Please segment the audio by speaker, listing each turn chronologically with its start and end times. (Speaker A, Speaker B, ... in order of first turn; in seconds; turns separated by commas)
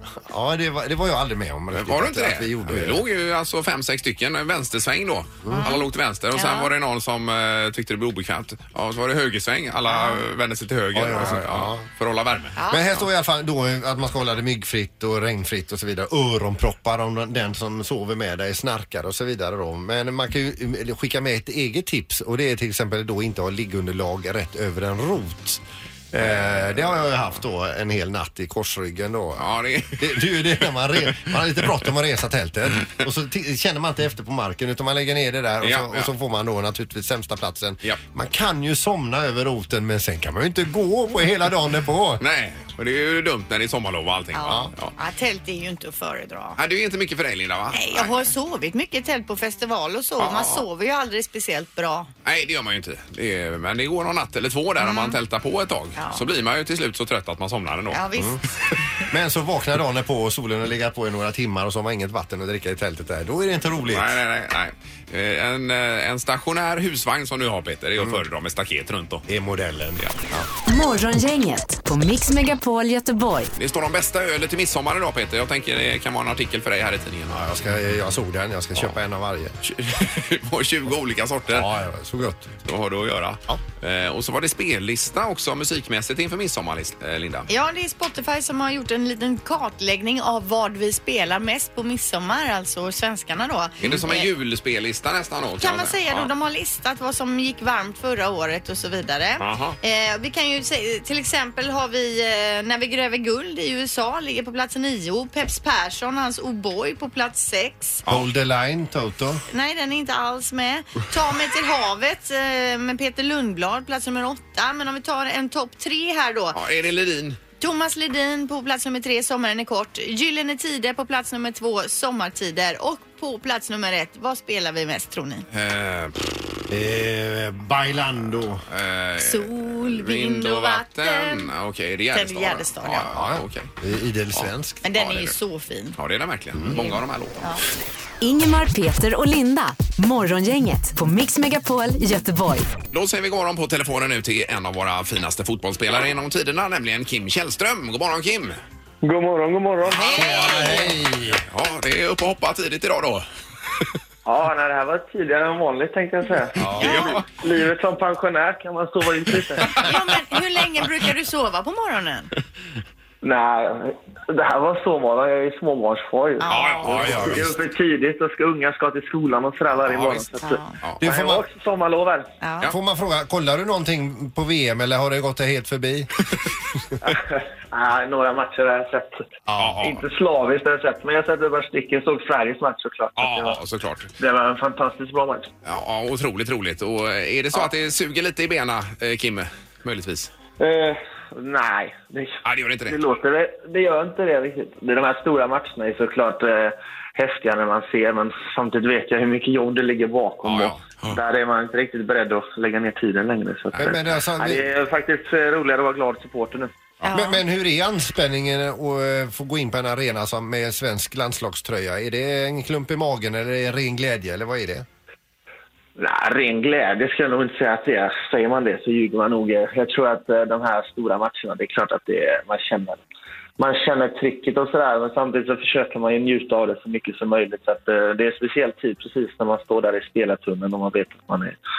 Speaker A: 0.1-3.0, Speaker B: 1.7-12.6, Speaker A: 5.4-5.8, Speaker C: 5.5-5.8, Speaker C: 6.3-6.7, Speaker C: 9.9-10.2, Speaker A: 10.9-11.8, Speaker C: 12.6-12.8, Speaker A: 12.7-42.2, Speaker B: 29.4-30.2, Speaker B: 35.6-36.1, Speaker B: 42.2-44.9, Speaker C: 44.3-46.6, Speaker B: 46.6-48.3, Speaker C: 47.7-52.1, Speaker B: 50.2-50.6, Speaker B: 52.2-58.0, Speaker C: 54.8-55.2, Speaker C: 56.0-56.2, Speaker C: 57.9-58.4, Speaker A: 59.0-64.2, Speaker B: 63.9-69.2, Speaker A: 69.3-70.5, Speaker D: 70.7-73.5, Speaker B: 73.5-77.4, Speaker A: 77.3-79.5, Speaker B: 79.6-81.7, Speaker A: 81.5-82.6, Speaker B: 82.6-87.5, Speaker C: 87.5-94.3, Speaker B: 93.8-96.3, Speaker C: 95.6-108.0, Speaker B: 99.4-99.8, Speaker A: 108.1-109.4, Speaker C: 109.5-116.6, Speaker B: 116.5-117.4, Speaker C: 117.6-125.5, Speaker B: 125.5-126.3, Speaker A: 126.7-128.6, Speaker B: 128.7-133.7, Speaker C: 129.2-131.5, Speaker C: 132.1-133.1, Speaker A: 133.1-134.8, Speaker B: 134.3-135.3, Speaker C: 134.8-136.0, Speaker B: 136.0-137.5, Speaker C: 136.7-137.6, Speaker D: 138.2-142.7, Speaker B: 142.9-148.6, Speaker E: 149.0-150.6, Speaker C: 149.9-150.9, Speaker B: 150.1-150.8, Speaker A: 150.1-151.4, Speaker B: 151.4-153.2, Speaker E: 154.2-159.9, Speaker B: 156.6-157.2, Speaker C: 159.7-162.3, Speaker E: 163.2-172.3, Speaker C: 166.4-167.0, Speaker B: 166.5-167.5, Speaker A: 167.0-167.4, Speaker B: 169.9-170.2, Speaker C: 170.4-170.8, Speaker A: 171.0-171.4, Speaker C: 172.4-172.7, Speaker A: 172.7-176.3, Speaker E: 177.0-179.2, Speaker A: 179.5-179.8, Speaker B: 179.6-180.0, Speaker E: 179.8-183.6, Speaker B: 183.2-184.1, Speaker E: 184.2-185.5, Speaker B: 185.6-190.3, Speaker E: 190.6-206.7, Speaker B: 192.4-193.0, Speaker B: 200.4-201.2, Speaker A: 203.8-204.6, Speaker C: 207.0-207.4, Speaker A: 207.1-214.8, Speaker E: 216.0-223.0, Speaker E: 223.6-231.6